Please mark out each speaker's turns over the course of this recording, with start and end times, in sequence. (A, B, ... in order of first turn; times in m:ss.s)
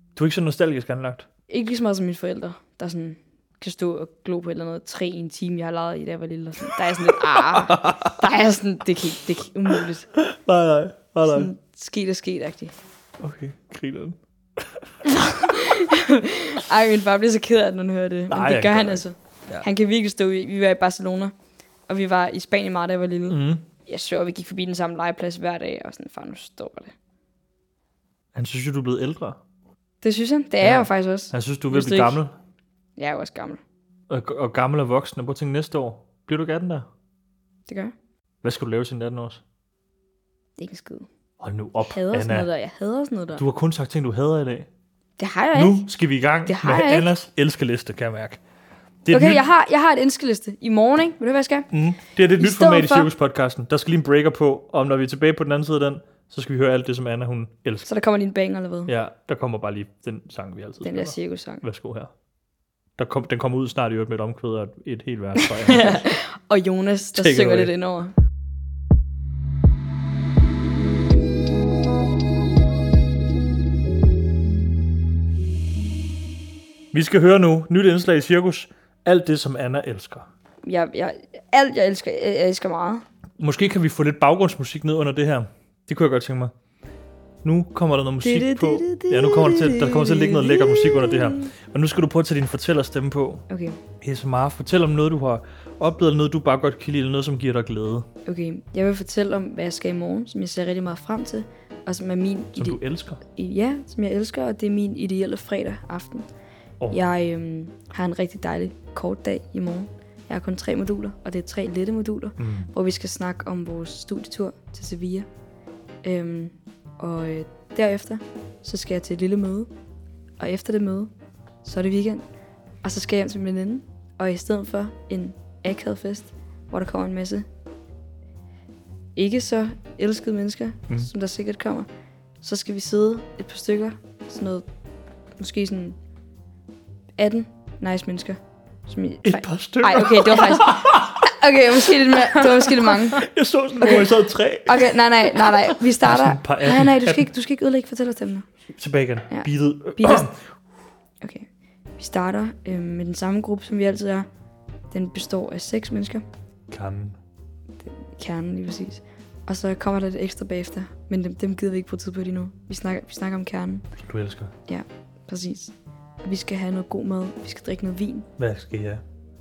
0:00.2-0:01.3 A
0:01.5-0:10.1 B
0:07.1-0:08.2 A
0:10.1-0:11.5 A
0:11.3-0:12.7 B
0:13.2-0:14.2 A
0:15.1-0:21.3 B
0:18.3-0:19.6 A
0:21.9-0:26.9 B
0:23.3-0:23.6 A
0:28.3-0:29.4 A
0:30.0-0:32.2 B
0:30.6-0:32.3 A
0:33.0-0:33.6 B
0:34.1-0:36.8 A
0:37.7-0:37.9 B
0:38.4-0:39.4 A
0:40.6-0:41.1 B
0:41.4-0:42.5 A
0:41.8-0:43.4 B
0:43.4-0:44.7 A
0:45.2-0:45.9 B
0:45.5-0:48.4 A
0:46.4-0:47.1 B
0:49.0-0:49.4 A
0:49.1-0:51.7 B
0:51.7-0:57.9 A
0:52.4-0:53.1 B
0:57.8-0:58.9 B
0:58.9-1:02.1 A
1:00.8-1:01.6 B
1:03.0-1:06.1 A
1:05.4-1:08.1 B
1:07.1-1:07.7 A
1:16.9-1:20.3 A
1:20.6-1:23.0 B
1:23.4-1:26.5 A
1:27.4-1:33.4 A
1:28.2-1:31.5 B
1:33.5-1:33.8 B
1:34.0-1:38.0 A
1:38.2-1:46.3 B
1:42.6-1:43.2 A
1:46.9-1:55.3 B
1:52.4-1:52.7 A
1:56.0-1:59.7 B
2:00.4-2:01.1 B
2:01.6-2:02.2 B
2:02.8-2:07.4 B
2:09.2-2:11.9 B
2:12.4-2:14.6 B
2:15.4-2:16.0 B
2:17.2-2:23.3 B
2:19.2-2:21.3 A
2:21.8-2:27.3 A
2:23.8-2:24.1 B
2:24.7-2:28.4 B
2:28.7-2:30.4 A
2:29.3-2:30.2 B
2:31.2-2:31.5 B
2:32.0-2:34.2 B
2:34.9-2:36.2 B
2:36.7-2:37.2 A
2:38.1-2:43.9 B
2:44.0-2:44.5 A
2:44.7-2:45.7 B
2:46.2-2:48.3 B
2:48.4-2:49.0 A